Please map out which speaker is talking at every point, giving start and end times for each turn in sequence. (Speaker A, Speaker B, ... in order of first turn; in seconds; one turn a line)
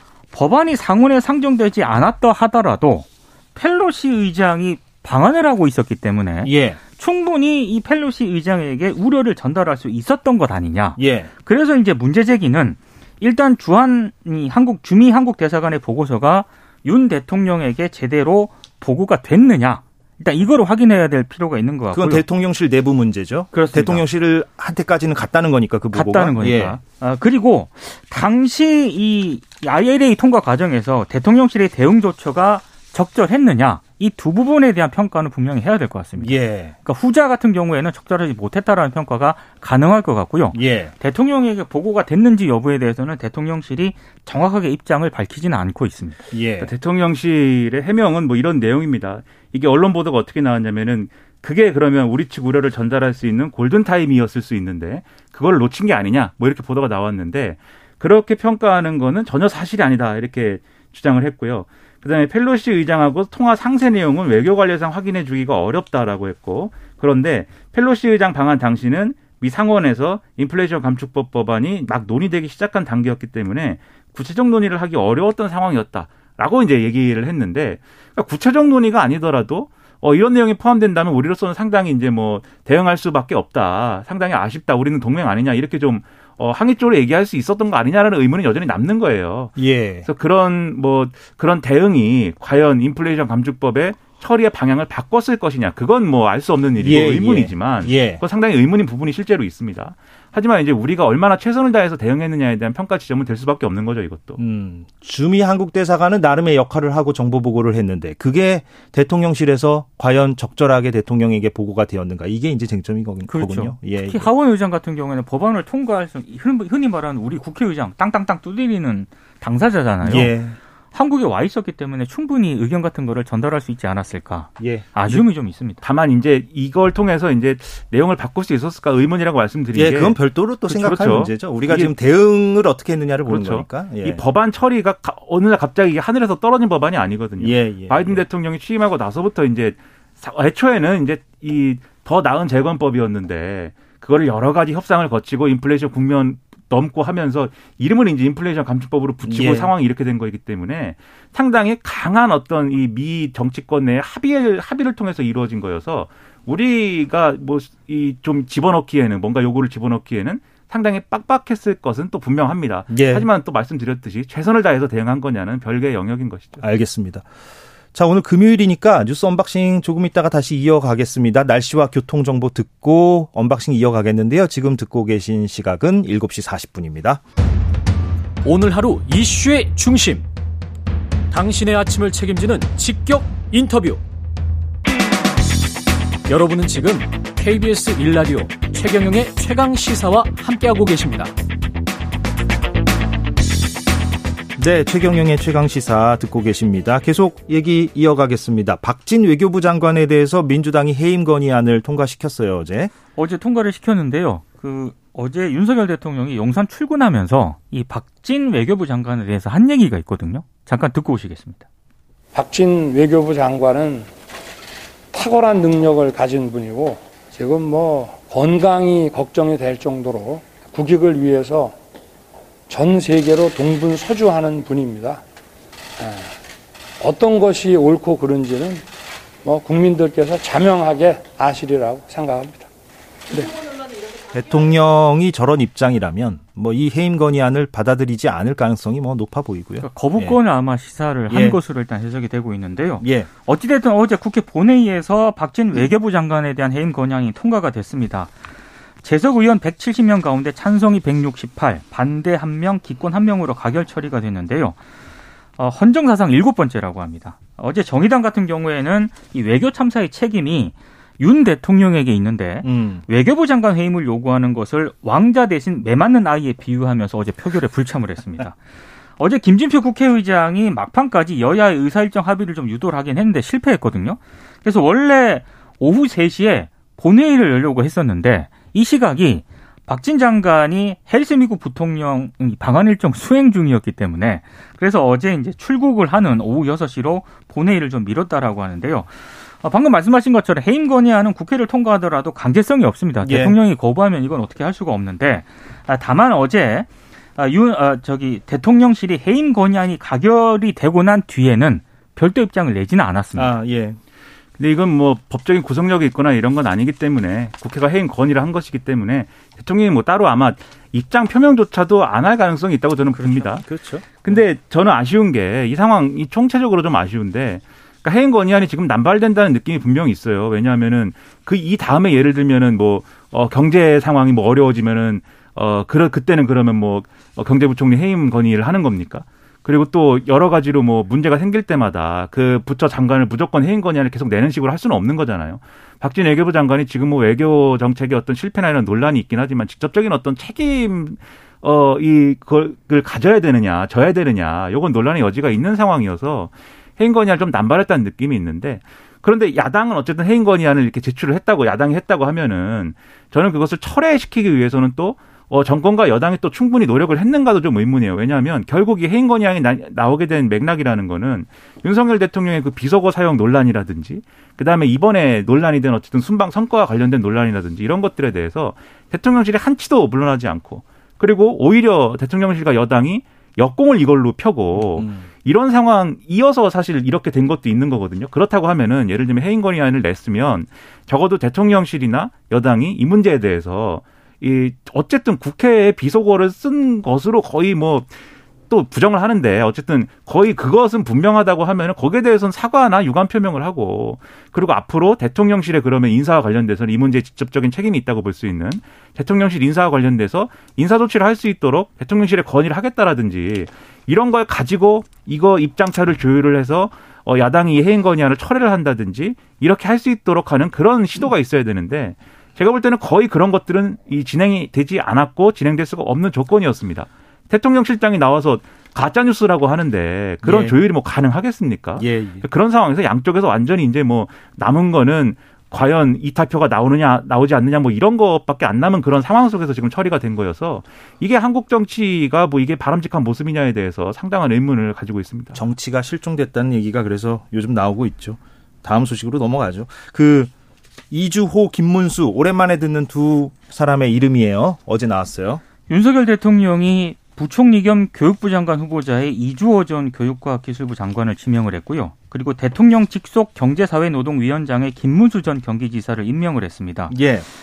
Speaker A: 0.3-22.2
Speaker B: 6.4-6.8
Speaker B: 11.0-11.3
Speaker B: 21.9-26.8
Speaker A: 23.5-24.0
Speaker A: 25.9-46.2
Speaker B: 36.2-36.7
Speaker B: 40.5-40.9
Speaker B: 46.3-46.7
Speaker C: 46.6-104.4
Speaker B: 89.6-90.1
Speaker B: 96.8-98.2
Speaker B: 104.4-114.3
Speaker A: 113.3-120.3
Speaker B: 120.0-120.6
Speaker A: 120.9-125.8
Speaker B: 124.6-125.2
Speaker C: 125.8-131.9
Speaker B: 129.7-134.2
Speaker C: 133.2-166.6
Speaker B: 137.4-138.2
Speaker B: 149.2-149.7
Speaker B: 162.9-163.3
Speaker B: 166.6-167.2
Speaker B: 167.9-177.2
Speaker D: 178.4-180.2
Speaker D: 181.3-184.0
Speaker D: 186.3-191.3
Speaker B: 194.6-202.9
Speaker A: 203.2-211.6
Speaker E: 212.3-214.1
Speaker E: 215.1-221.7
Speaker E: 222.7-225.2
Speaker E: 226.0-226.3
Speaker E: 227.0-228.8
Speaker E: 229.4-232.7
Speaker B: 234.3-240.4
Speaker A: 239.8-248.3
Speaker B: 241.3-241.6
Speaker B: 243.0-243.3
Speaker A: 249.0-254.8
Speaker A: 255.6-268.6
Speaker B: 262.6-263.0
Speaker A: 269.2-303.5
Speaker B: 293.2-293.6
Speaker B: 303.3-304.0
Speaker C: 304.6-313.6
Speaker B: 313.2-314.4
Speaker C: 314.2-388.1
Speaker B: 374.8-375.3
Speaker C: 388.7-435.6
Speaker B: 420.4-420.8
Speaker B: 422.0-422.4
Speaker B: 435.5-440.5
Speaker B: 441.1-445.6
Speaker A: 445.9-457.1
Speaker B: 457.1-457.5